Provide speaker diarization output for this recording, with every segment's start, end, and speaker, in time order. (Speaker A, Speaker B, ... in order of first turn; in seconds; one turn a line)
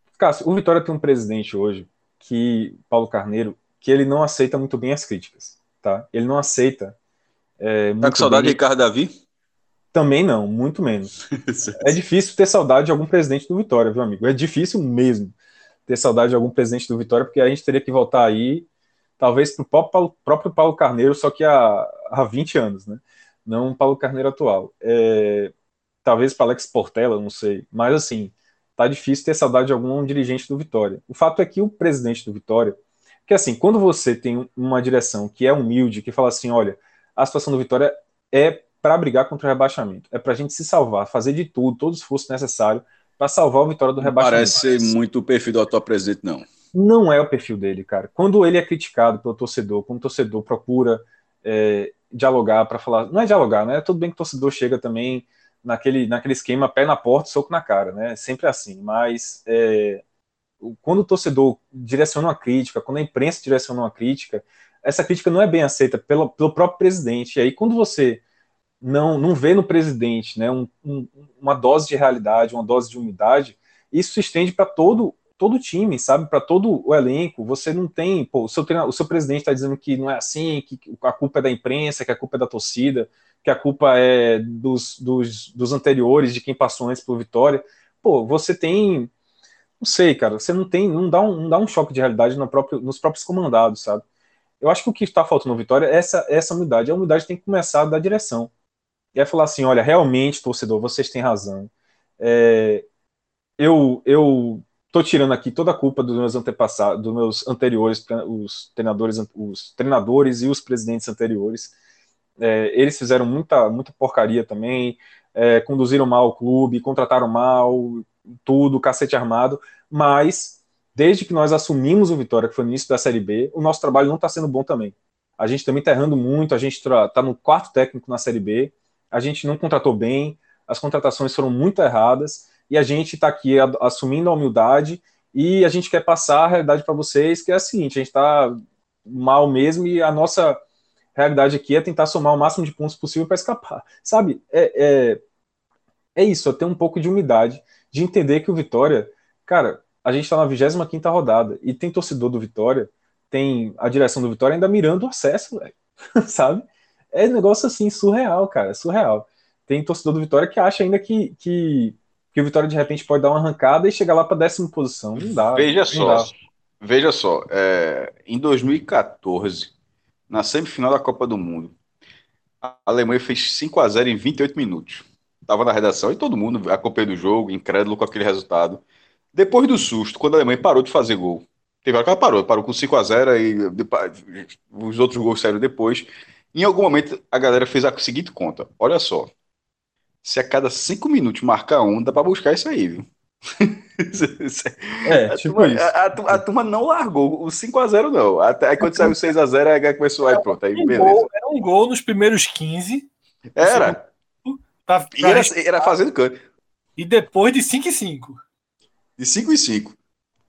Speaker A: 0.2-7.0
Speaker A: 7.6-8.6
Speaker B: 8.0-9.1
Speaker A: 9.9-11.1
Speaker B: 11.5-12.0
Speaker A: 11.8-15.3
Speaker A: 15.9-18.7
Speaker A: 19.2-25.5
Speaker A: 26.0-44.9
Speaker B: 44.0-46.5
Speaker A: 46.7-60.0
Speaker A: 60.6-68.2
Speaker A: 68.8-89.1
Speaker A: 89.8-94.0
Speaker A: 94.6-98.5
Speaker A: 99.2-102.9
Speaker A: 103.6-111.7
Speaker A: 112.4-140.6
Speaker A: 141.2-145.2
Speaker A: 146.2-166.3
Speaker B: 165.5-169.7
Speaker B: 170.3-171.8
Speaker B: 172.6-178.8
Speaker B: 179.3-189.3
Speaker B: 190.2-193.1
Speaker B: 193.6-201.2
Speaker A: 195.1-196.4
Speaker C: 200.3-203.1
Speaker B: 203.6-204.0
Speaker C: 203.6-205.9
Speaker B: 205.2-206.4
Speaker C: 207.0-208.4
Speaker B: 209.2-210.0